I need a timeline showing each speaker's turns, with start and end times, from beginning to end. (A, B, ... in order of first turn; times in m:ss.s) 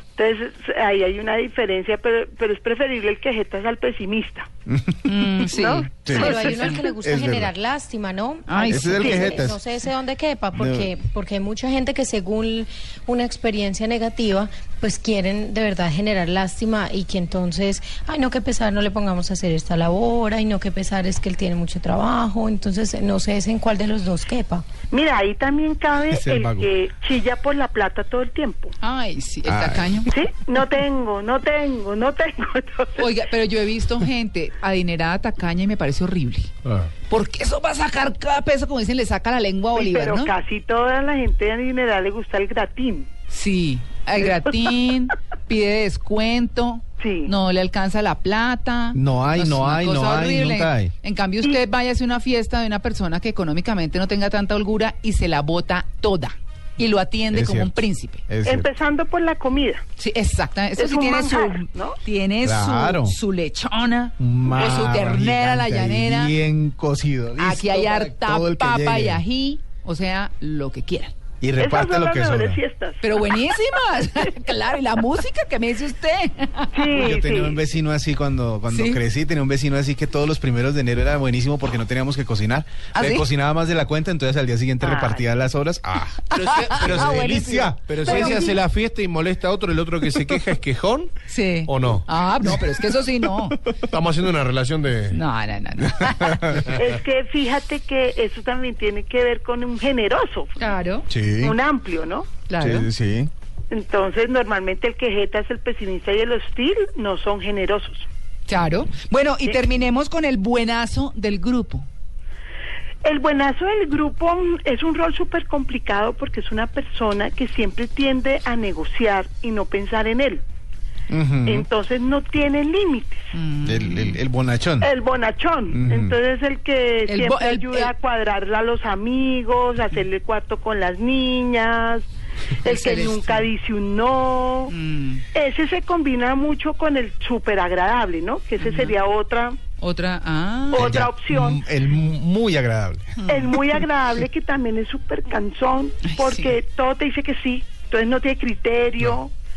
0:00.2-0:04.5 A
0:04.7-0:05.3 B
0:05.0-0:06.8 C
0:05.5-0:06.8 A
0:06.0-0:07.5 B
0:06.1-0:24.6 D
0:08.5-0:09.3 C
0:08.7-0:09.6 B
0:09.0-0:09.3 A
0:10.6-0:10.9 B
0:24.9-0:28.7 A
0:26.1-0:26.7 B
0:28.8-0:30.1 C
0:29.5-0:30.0 B
0:30.1-0:33.1 A
0:33.0-0:36.5 C
0:37.1-0:40.3 C
0:39.7-0:43.1 A
0:43.3-0:58.2 C
0:47.0-0:47.3 A
0:48.9-0:50.9 B
0:57.3-0:58.7 B
0:58.4-0:59.8 A
1:00.0-1:06.3 C
1:00.8-1:02.0 A
1:02.4-1:03.2 B
1:04.2-1:09.2 B
1:04.5-1:04.8 A
1:07.4-1:11.1 C
1:11.4-1:12.6 B
1:11.6-1:13.4 A
1:13.0-1:16.8 C
1:16.7-1:17.6 A
1:16.9-1:27.9 B
1:18.7-1:19.0 C
1:22.9-1:23.3 C
1:24.8-1:25.2 A
1:26.3-1:31.1 E
1:26.4-1:27.4 C
1:28.0-1:28.5 A
1:28.1-1:28.3 C
1:31.3-1:33.6 C
1:31.6-1:32.0 E
1:33.9-1:35.2 E
1:35.1-1:36.6 C
1:36.0-1:36.7 B
1:36.7-1:40.7 A
1:40.6-1:41.1 C
1:41.1-1:41.5 B
1:41.4-1:42.3 A
1:42.5-1:42.9 C
1:42.6-1:43.3 B
1:43.7-1:48.1 A
1:48.5-1:51.9 C
1:53.0-2:00.4 A
2:01.1-2:01.7 B
2:01.4-2:03.2 A
2:03.3-2:04.2 C
2:03.6-2:04.9 B
2:04.8-2:12.0 A
2:05.7-2:06.1 B
2:07.1-2:07.9 C
2:12.6-2:14.7 A
2:12.6-2:13.5 C
2:14.7-2:15.2 C
2:15.3-2:19.6 A
2:18.6-2:19.0 C
2:19.8-2:21.0 C
2:20.7-2:21.6 A
2:20.7-2:23.1 B
2:23.2-2:23.5 C
2:23.3-2:29.3 A
2:26.0-2:26.5 C